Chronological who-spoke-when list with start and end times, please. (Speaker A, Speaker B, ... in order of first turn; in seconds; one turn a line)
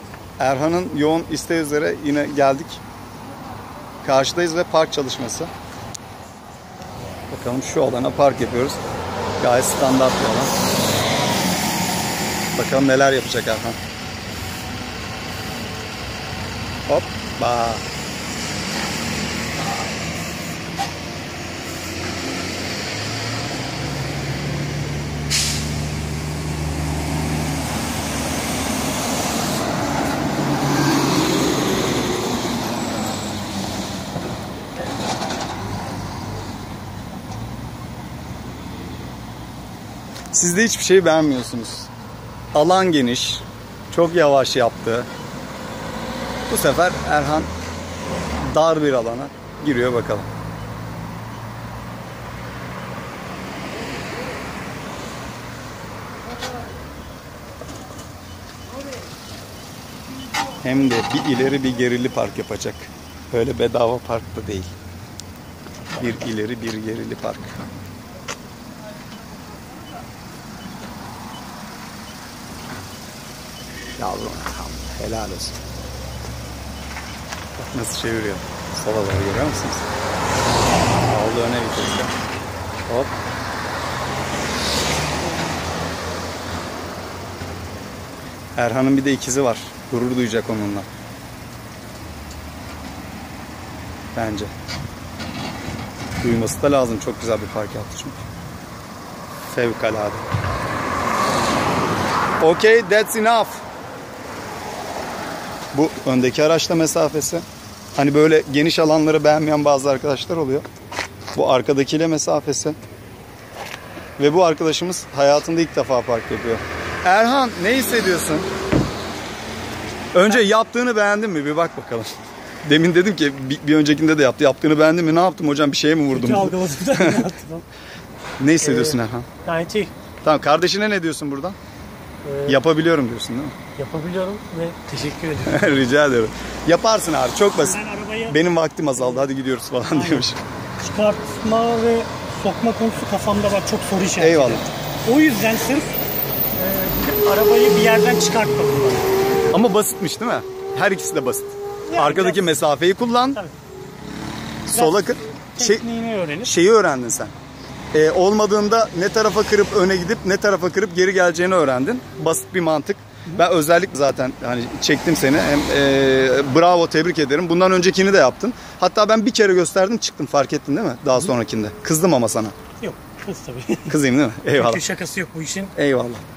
Speaker A: 0.4-2.8
Speaker A: 4.0-5.5
Speaker A: 7.3-8.8
Speaker A: 9.4-10.6
Speaker A: 12.6-13.8
Speaker A: 16.9-17.9
Speaker A: 40.3-41.9
Speaker A: 42.5-45.1
Speaker A: 46.5-47.5
Speaker A: 48.4-50.3
Speaker A: 60.6-64.7
Speaker A: 66.0-67.6
Speaker A: 74.0-75.6
Speaker A: 77.6-79.8
Speaker A: 81.1-82.1
Speaker A: 82.9-83.2
Speaker A: 88.6-90.9
Speaker A: 94.2-94.5
Speaker A: 96.2-98.2
Speaker A: 99.5-100.3
Speaker A: 102.4-103.6
Speaker A: 105.7-107.4
Speaker A: 108.0-110.7
Speaker A: 111.3-112.8
Speaker A: 114.2-118.5
Speaker A: 120.1-122.1
Speaker A: 122.6-127.2
Speaker B: 126.1-127.7
Speaker A: 128.4-129.3
Speaker B: 128.6-129.9
Speaker A: 130.2-131.6
Speaker B: 132.2-132.6
Speaker A: 132.5-133.6
Speaker B: 133.8-135.8
Speaker A: 135.5-140.4
Speaker B: 137.6-138.4
Speaker B: 139.9-140.3
Speaker B: 140.8-146.0
Speaker A: 144.2-144.7
Speaker B: 146.6-149.1
Speaker A: 149.5-153.4
Speaker B: 151.9-152.5
Speaker A: 154.7-155.8
Speaker B: 154.7-156.5
Speaker A: 156.4-157.3
Speaker A: 157.9-172.6
Speaker B: 172.8-174.0
Speaker A: 173.9-174.8
Speaker B: 174.5-175.7
Speaker A: 175.8-176.2